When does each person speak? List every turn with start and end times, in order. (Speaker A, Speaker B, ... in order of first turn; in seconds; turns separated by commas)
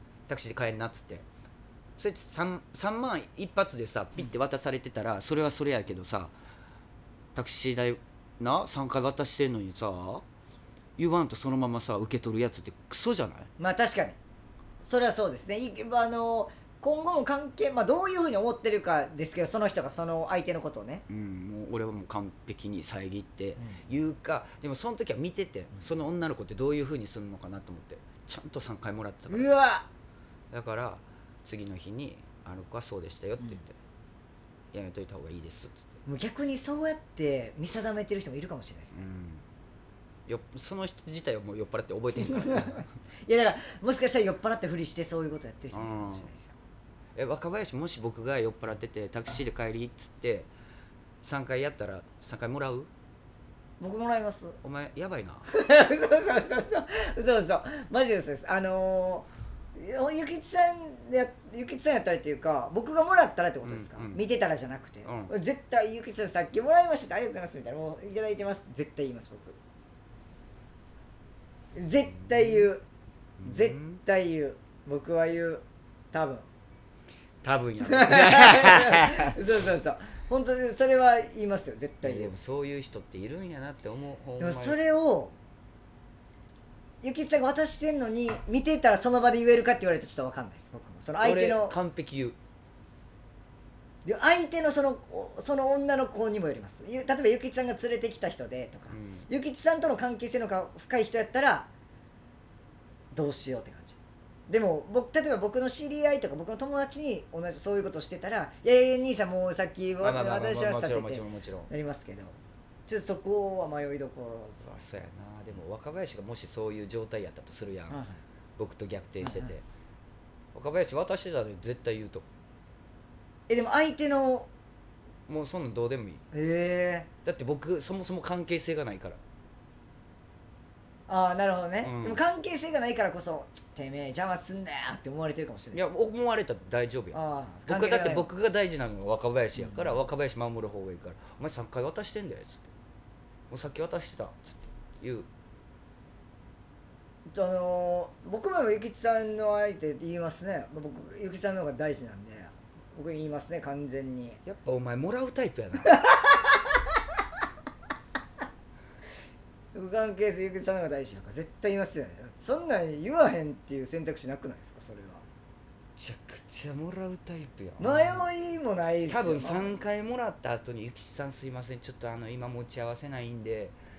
Speaker A: 0.3-1.2, Speaker A: 2.0-6.3, Speaker A: 7.3-10.2, Speaker A: 11.0-13.5, Speaker B: 13.6-14.2, Speaker B: 14.8-21.0, Speaker A: 21.1-29.5, Speaker B: 29.3-29.9, Speaker A: 30.5-33.7, Speaker A: 34.7-36.0, Speaker B: 36.0-39.0, Speaker A: 38.9-39.4, Speaker A: 40.3-42.9, Speaker B: 42.2-46.5, Speaker A: 45.7-46.3, Speaker A: 47.2-50.5, Speaker A: 51.2-52.9, Speaker B: 53.8-54.6, Speaker A: 54.6-55.5, Speaker B: 55.5-69.6, Speaker A: 63.6-64.2, Speaker A: 65.0-65.3, Speaker B: 71.8-72.8, Speaker A: 72.4-72.7, Speaker A: 73.4-74.0, Speaker B: 73.4-76.5, Speaker A: 77.4-79.4, Speaker B: 77.8-82.3, Speaker A: 82.0-84.8, Speaker B: 84.4-85.3, Speaker B: 87.0-91.8, Speaker A: 91.2-92.4, Speaker B: 94.0-101.7, Speaker A: 98.9-99.3, Speaker B: 103.1-104.0, Speaker B: 104.5-114.7, Speaker A: 110.0-111.7, Speaker A: 114.6-118.0, Speaker B: 117.9-118.2, Speaker A: 118.6-119.6, Speaker B: 119.2-119.5, Speaker A: 120.5-122.2, Speaker B: 123.5-124.5, Speaker A: 125.3-126.2, Speaker B: 126.3-127.1, Speaker A: 127.2-129.2, Speaker B: 131.1-135.8, Speaker A: 131.8-132.2, Speaker A: 135.7-142.7, Speaker B: 137.1-138.3, Speaker B: 139.6-140.0, Speaker A: 143.5-145.3, Speaker B: 147.3-154.4, Speaker A: 154.4-156.0, Speaker B: 156.0-156.3, Speaker B: 159.7-165.2, Speaker A: 166.0-168.2, Speaker B: 167.8-169.7, Speaker A: 169.1-173.8